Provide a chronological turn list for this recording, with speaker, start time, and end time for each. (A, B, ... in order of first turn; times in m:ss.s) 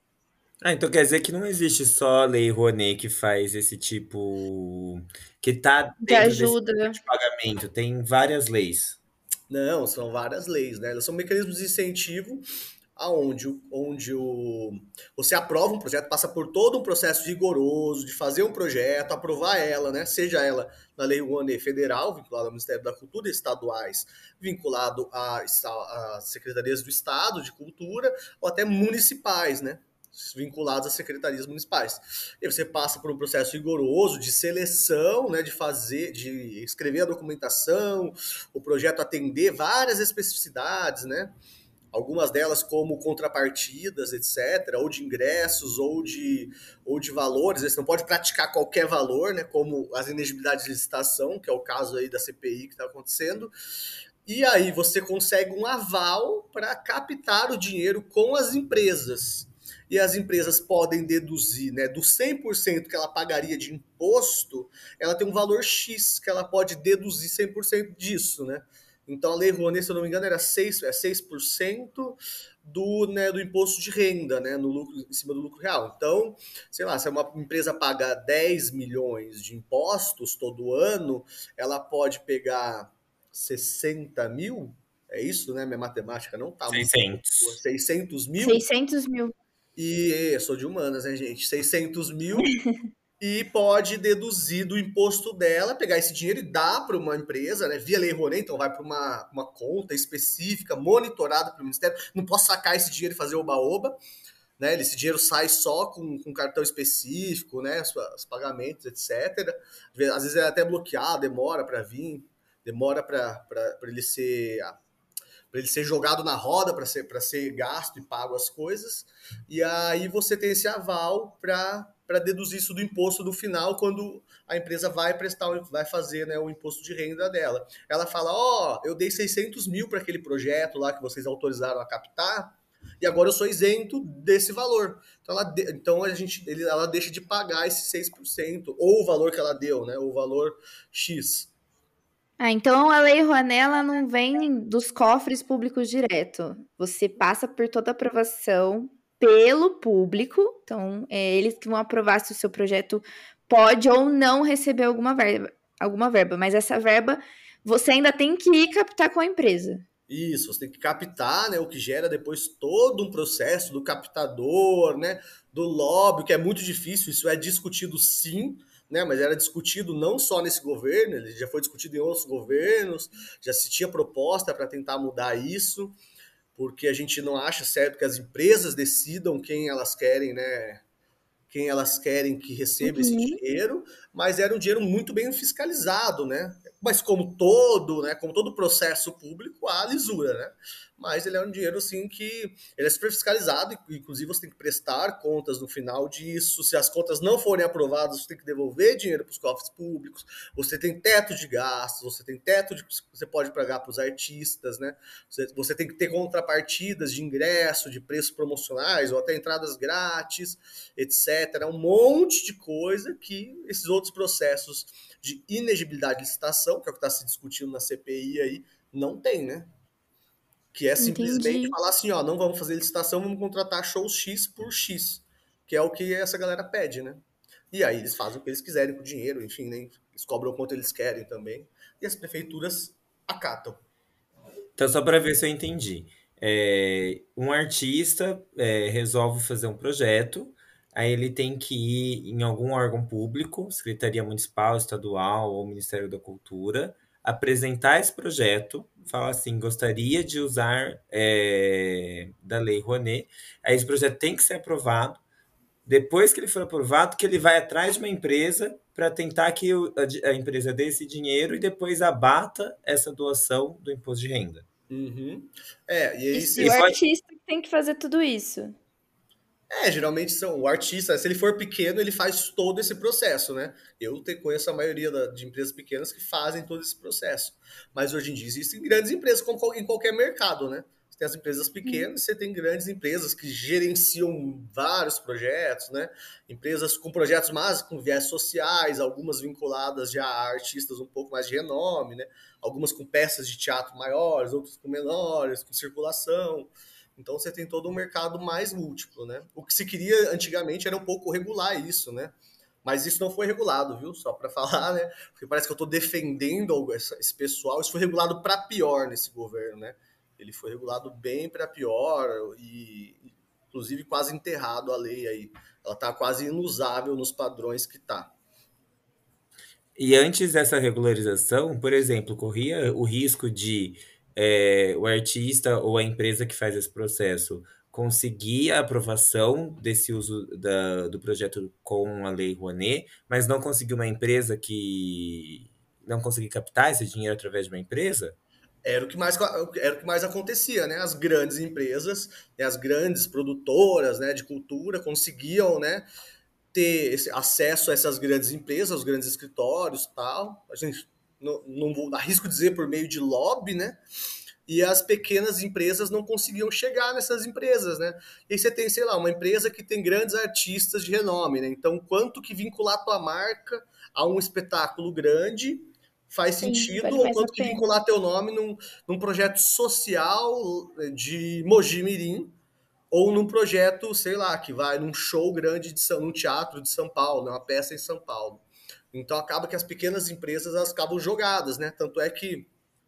0:00.6-0:09.0 A
0:06.0-0:07.0 B
0:09.5-0:12.4 C
0:13.0-0:41.3 C
0:41.9-0:53.5 C
0:54.2-1:28.6 C
1:26.7-1:27.6 A
1:28.4-1:29.3 B
1:29.8-1:32.5 C
1:33.2-1:44.0 C
1:44.6-1:54.8 C
1:55.5-2:21.5 C
2:22.4-2:39.8 B
2:40.1-2:56.0 C
2:56.6-3:00.8 C
3:01.5-3:39.7 C
3:02.8-3:03.4 B
3:40.7-3:53.8 C
3:41.0-3:41.7 B
3:54.8-4:15.2 A
4:15.8-4:24.6 A
4:24.9-4:26.8 C
4:26.3-4:28.7 B
4:26.6-4:27.0 A
4:29.7-5:18.3 C
5:20.0-5:38.4 A
5:38.8-5:46.0 C
5:46.7-5:54.0 C
5:54.7-6:12.5 C
6:06.6-6:07.8 B
6:13.1-6:22.7 C